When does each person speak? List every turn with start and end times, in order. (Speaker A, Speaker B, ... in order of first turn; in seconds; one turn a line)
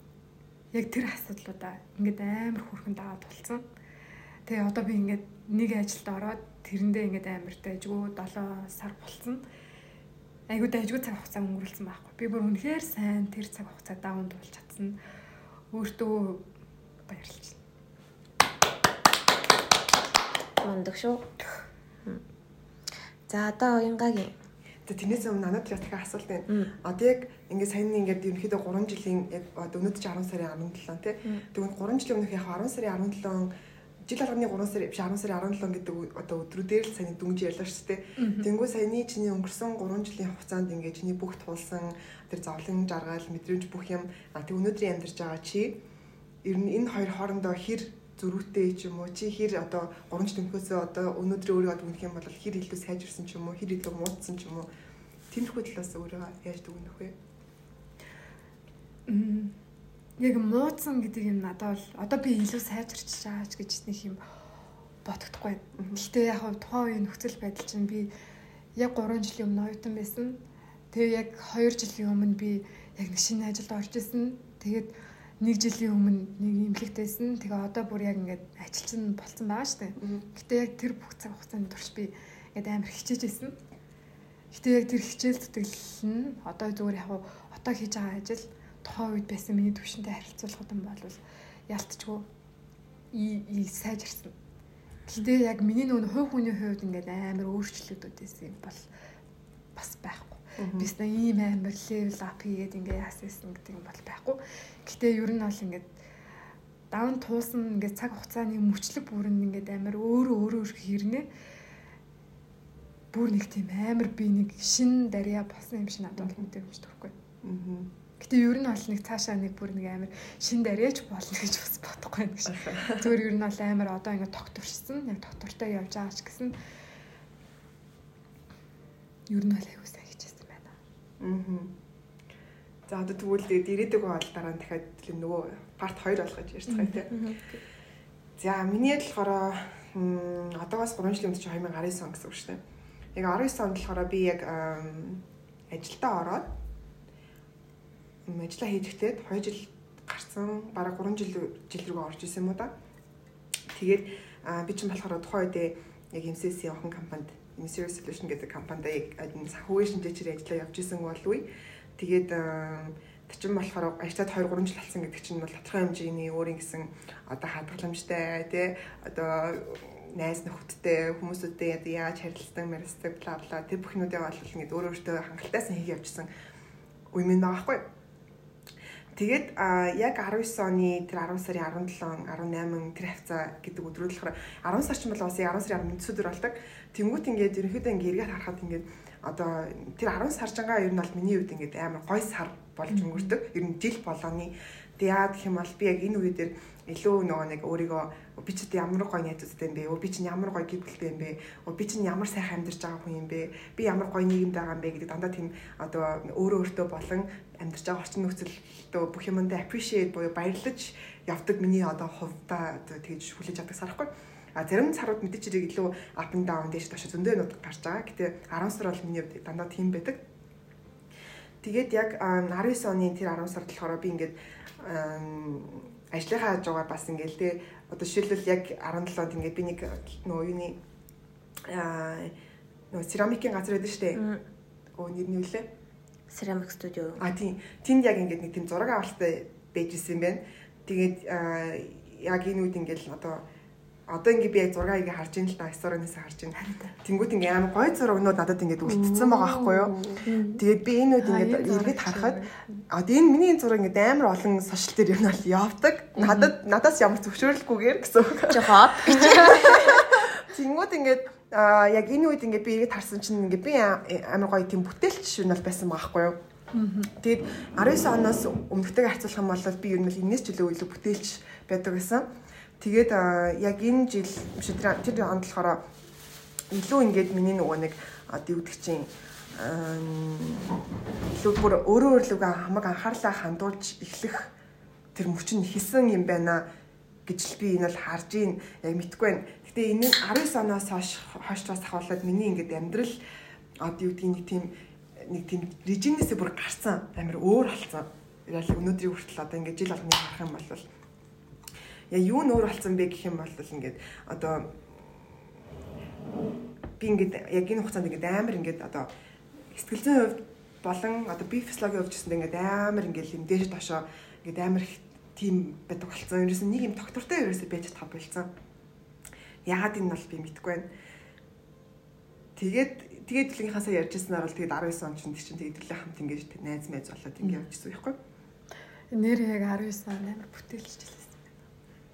Speaker A: 0.7-3.6
Speaker A: 4.5-9.4
Speaker A: 10.5-15.0
Speaker A: 15.7-16.4
Speaker A: 17.1-17.6
Speaker B: 20.6-21.4
Speaker B: 23.3-24.3
Speaker C: 24.9-33.5
Speaker C: 34.0-45.8
Speaker A: 38.2-38.5
Speaker C: 46.4-54.7
Speaker C: 55.3-57.1
Speaker A: 59.1-59.6
Speaker A: 60.2-64.2
Speaker A: 65.0-68.1
Speaker C: 65.8-66.0
Speaker A: 68.8-70.4
Speaker A: 70.9-83.6
Speaker C: 80.0-80.2
Speaker A: 84.5-92.3
Speaker A: 93.1-94.3
Speaker A: 95.1-98.9
Speaker A: 99.8-105.9
Speaker C: 100.6-100.9
Speaker A: 106.9-111.3
Speaker A: 113.1-117.1
Speaker C: 116.2-116.4
Speaker C: 117.4-117.9
Speaker A: 118.2-126.6
Speaker C: 122.5-123.1
Speaker A: 129.3-130.7
Speaker C: 131.2-131.7
Speaker C: 132.9-137.1
Speaker A: 136.7-137.1
Speaker B: 137.1-137.6
Speaker C: 138.4-142.6
Speaker C: 143.1-146.5
Speaker C: 148.2-152.7
Speaker C: 153.7-176.3
Speaker C: 177.1-177.8
Speaker C: 179.1-220.2
Speaker A: 192.9-193.3
Speaker C: 221.6-230.8
Speaker C: 231.7-232.3
Speaker C: 232.9-234.2
Speaker B: 234.2-234.4
Speaker C: 234.9-235.7
Speaker B: 236.3-237.3
Speaker C: 237.2-243.4
Speaker C: 244.1-266.4
Speaker A: 246.6-246.9
Speaker A: 249.2-250.2
Speaker B: 250.2-250.6
Speaker A: 251.2-252.8
Speaker B: 258.5-260.0
Speaker A: 266.7-267.1
Speaker C: 267.1-272.3
Speaker C: 272.8-275.8
Speaker C: 276.7-284.5
Speaker C: 285.1-286.6
Speaker C: 287.2-293.2
Speaker C: 293.8-300.9
Speaker C: 302.1-305.3
Speaker C: 307.0-309.1
Speaker C: 309.7-318.5
Speaker C: 319.6-320.9
Speaker C: 322.6-328.2
Speaker A: 329.1-331.6